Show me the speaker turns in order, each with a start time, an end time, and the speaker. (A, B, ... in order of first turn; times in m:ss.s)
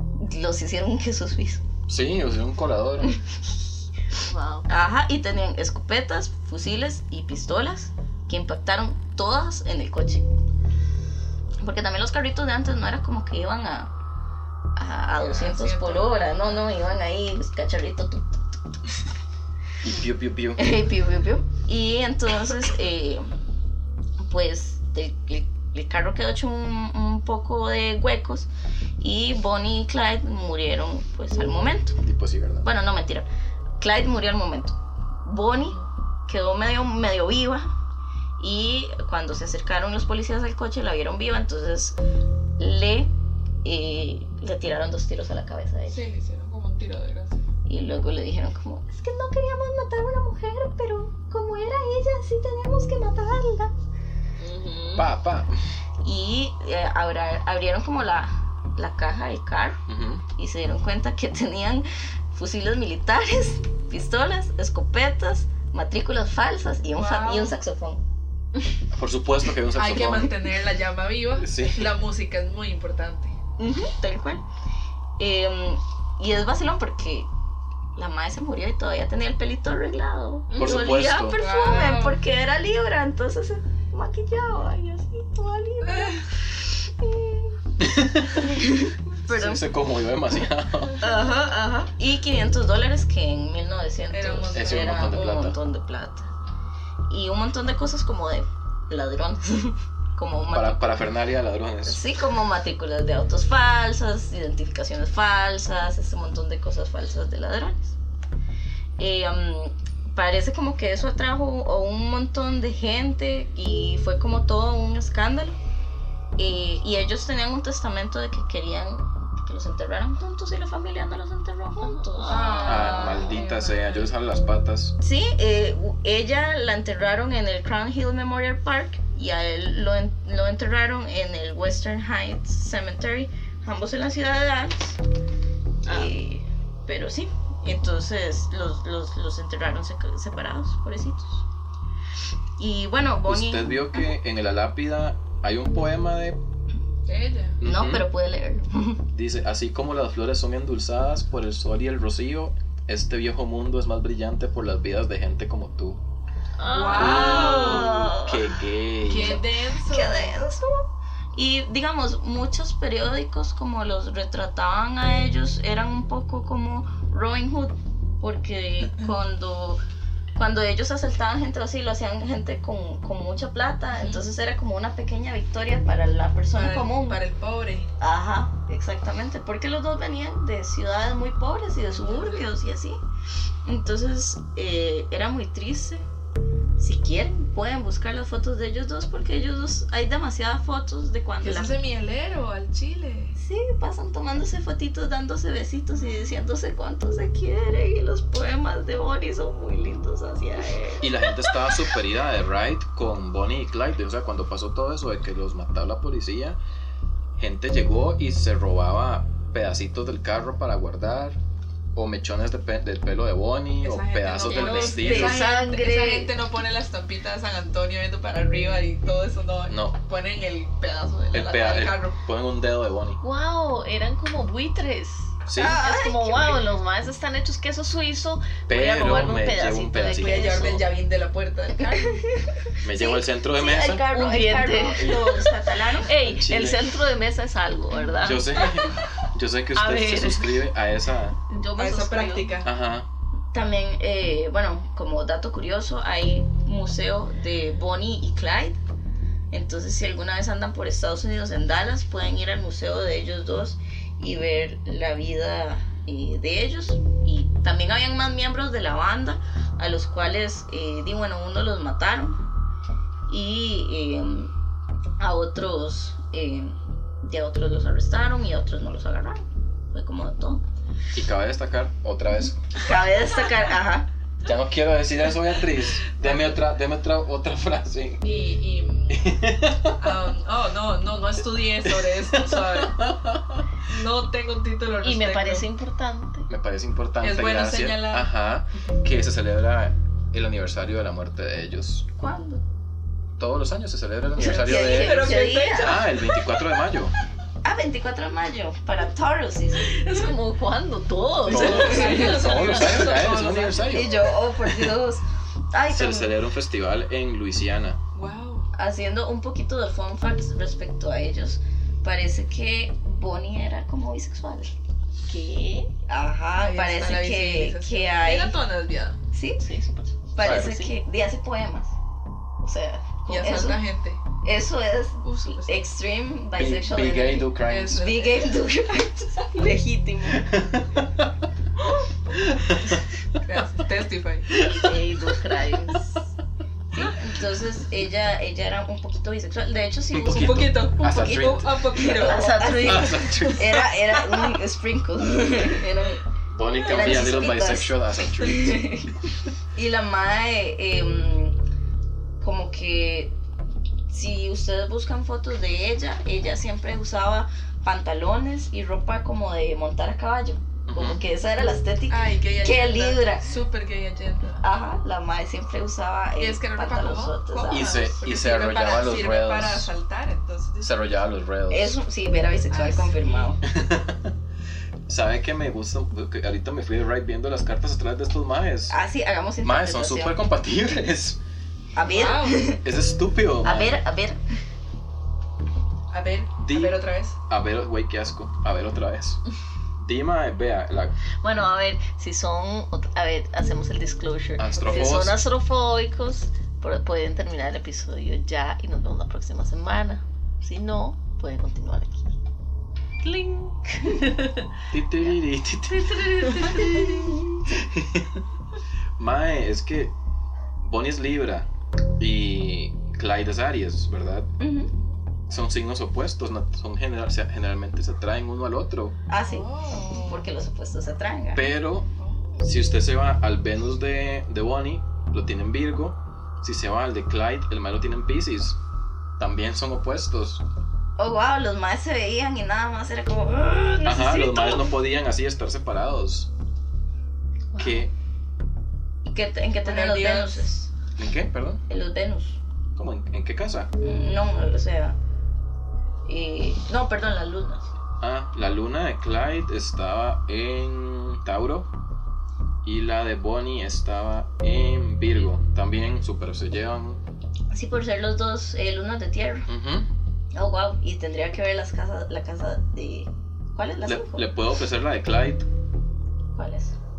0:00.2-0:01.6 A
0:01.9-0:03.2 B
0:04.2-0:04.7 C
0:04.7-0:10.2 A
0:11.6-0:13.9 A
0:14.8-0:18.6 A
0:15.2-0:16.6 D
0:19.8-0:20.7 B
0:20.6-0:23.3 A
0:24.2-0:28.5 A
0:29.0-0:32.0 A
0:32.0-0:32.7 B
0:32.6-0:33.3 A
0:33.8-0:37.7 A
0:35.6-0:35.9 D
0:38.4-0:42.0 A
0:42.6-0:43.1 A
0:43.6-0:46.1 A
0:45.9-0:47.5 D
0:47.7-0:53.7 A
0:54.4-0:55.1 A
0:55.0-0:55.5 B
0:56.0-0:59.8 A
0:59.9-1:00.2 B
1:00.4-1:08.0 A
1:07.0-1:07.6 D
1:08.9-1:10.4 B
1:09.8-1:13.4 D
1:11.4-1:12.0 B
1:13.6-1:14.4 A
1:15.2-1:17.3 A
1:18.0-1:27.6 A
1:20.6-1:21.4 B
1:20.7-1:22.2 D
1:25.9-1:26.2 D
1:27.8-1:28.5 B
1:28.4-1:29.7 A
1:29.3-1:31.1 B
1:31.0-1:36.3 A
1:34.1-1:35.1 D
1:34.5-1:35.6 B
1:37.1-1:41.1 A
1:40.5-1:42.0 B
1:41.8-1:48.0 A
1:49.0-1:55.6 A
1:56.4-2:03.1 A
2:01.8-2:03.2 C
2:02.2-2:04.1 D
2:02.6-2:05.0 B
2:05.0-2:15.0 A
2:15.9-2:21.4 A
2:22.6-2:24.1 A
2:23.3-2:26.4 B
2:27.1-2:27.6 D
2:27.6-2:28.1 B
2:27.6-2:29.0 A
2:29.1-2:36.0 B
2:36.6-2:38.0 C
2:36.6-2:38.0 D
2:37.0-2:39.4 B
2:37.0-2:38.5 A
2:39.0-2:40.4 D
2:39.1-2:49.8 A
2:50.4-2:57.2 A
2:56.5-2:57.9 D
2:58.0-3:03.0 A
3:02.0-3:02.4 D
3:03.6-3:06.0 A
3:06.8-3:11.8 A
3:11.4-3:13.4 D
3:13.4-3:21.7 A
3:21.0-3:26.6 B
3:27.4-3:31.4 B
3:32.0-3:35.4 B
3:33.8-3:42.2 D
3:34.4-3:35.4 C
3:35.0-3:36.3 A
3:39.7-3:40.0 B
3:41.3-3:43.2 B
3:43.2-3:50.8 C
3:45.5-3:45.8 B
3:45.6-3:46.6 A
3:48.7-3:50.8 B
3:50.2-3:52.2 D
3:51.9-3:56.1 A
3:52.8-3:54.0 B
3:54.1-3:58.6 C
3:56.2-3:56.8 B
3:58.2-4:01.4 B
3:59.7-4:00.6 C
4:01.5-4:02.6 C
4:01.8-4:02.7 D
4:02.6-4:03.1 B
4:03.5-4:08.8 A
4:09.5-4:22.4 A
4:23.3-4:24.5 A
4:25.2-4:30.6 A
4:31.1-4:32.6 B
4:32.8-4:34.1 A
4:34.4-4:38.3 B
4:36.2-4:36.6 D
4:38.2-4:39.3 D
4:39.1-4:40.0 B
4:40.0-4:43.1 D
4:41.9-4:43.6 B
4:43.9-4:45.7 D
4:45.0-4:46.5 C
4:46.5-4:52.1 B
4:47.2-4:48.3 D
4:52.2-4:52.6 A
4:53.4-4:57.1 B
4:54.4-4:56.4 D
4:54.4-4:56.1 A
4:57.6-5:00.0 A
4:59.9-5:03.6 C
5:01.5-5:04.2 B
5:01.5-5:04.1 D
5:01.5-5:02.4 A
5:03.9-5:06.4 A
5:05.9-5:08.0 B
5:08.1-5:08.7 D
5:08.7-5:14.7 A
5:15.3-5:15.9 C
5:16.1-5:18.6 A
5:16.6-5:19.2 D
5:19.3-5:19.6 A
5:19.6-5:20.9 C
5:20.3-5:22.0 A
5:20.4-5:20.8 B
5:22.6-5:23.8 A
5:23.3-5:24.2 D
5:24.4-5:30.6 A
5:25.2-5:25.8 D
5:26.6-5:28.0 B
5:27.6-5:28.5 D
5:30.4-5:31.3 B
5:32.5-5:33.0 B
5:33.4-5:34.5 D
5:34.6-5:34.9 B
5:34.7-5:36.2 C
5:36.9-5:46.2 A
5:40.1-5:42.1 B
5:40.3-5:42.4 D
5:42.1-5:43.8 C
5:42.8-5:43.9 B
5:46.5-5:48.9 B
5:46.8-5:47.2 D
5:46.8-5:49.1 A
5:49.7-5:51.6 A
5:52.4-5:53.3 A
5:54.1-6:03.5 A
6:00.9-6:01.2 B
6:02.1-6:04.6 D
6:04.6-6:08.0 A
6:06.4-6:11.2 D
6:07.7-6:09.9 B
6:10.8-6:12.0 B
6:11.7-6:13.6 A
6:12.7-6:13.5 D
6:13.6-6:14.3 B
6:15.1-6:19.0 B
6:18.9-6:20.4 A
6:19.6-6:21.4 B
6:22.0-6:22.8 A
6:22.0-6:22.7 D
6:22.8-6:24.0 B
6:23.6-6:24.4 A
6:26.1-6:27.4 D
6:26.6-6:29.4 B
6:30.0-6:31.1 B
6:31.4-6:42.3 C
6:34.6-6:35.4 B
6:43.2-6:45.4 C
6:44.9-6:46.9 B
6:45.9-6:47.3 C
6:46.7-6:47.6 A
6:47.7-6:48.4 B
6:49.2-6:50.1 B
6:50.8-6:51.7 B
6:52.2-6:54.5 B
6:54.6-6:54.9 A
6:55.5-6:59.2 B
6:59.3-7:01.7 A
6:59.4-7:00.4 D
7:01.6-7:02.1 B
7:02.2-7:02.6 D
7:02.6-7:08.8 B
7:09.4-7:10.6 B
7:11.2-7:15.0 A
7:14.0-7:16.5 B
7:17.7-7:18.1 C
7:17.8-7:18.1 B
7:19.2-7:20.9 A
7:19.8-7:20.7 D
7:21.2-7:21.8 B
7:21.9-7:22.6 A
7:23.0-7:23.9 B
7:24.0-7:25.2 A
7:26.2-7:27.9 A
7:28.2-7:31.9 B
7:32.8-7:37.2 B
7:37.7-7:39.7 A
7:39.7-7:40.1 B
7:40.5-7:44.5 A
7:44.1-7:45.7 B
7:46.6-7:47.0 A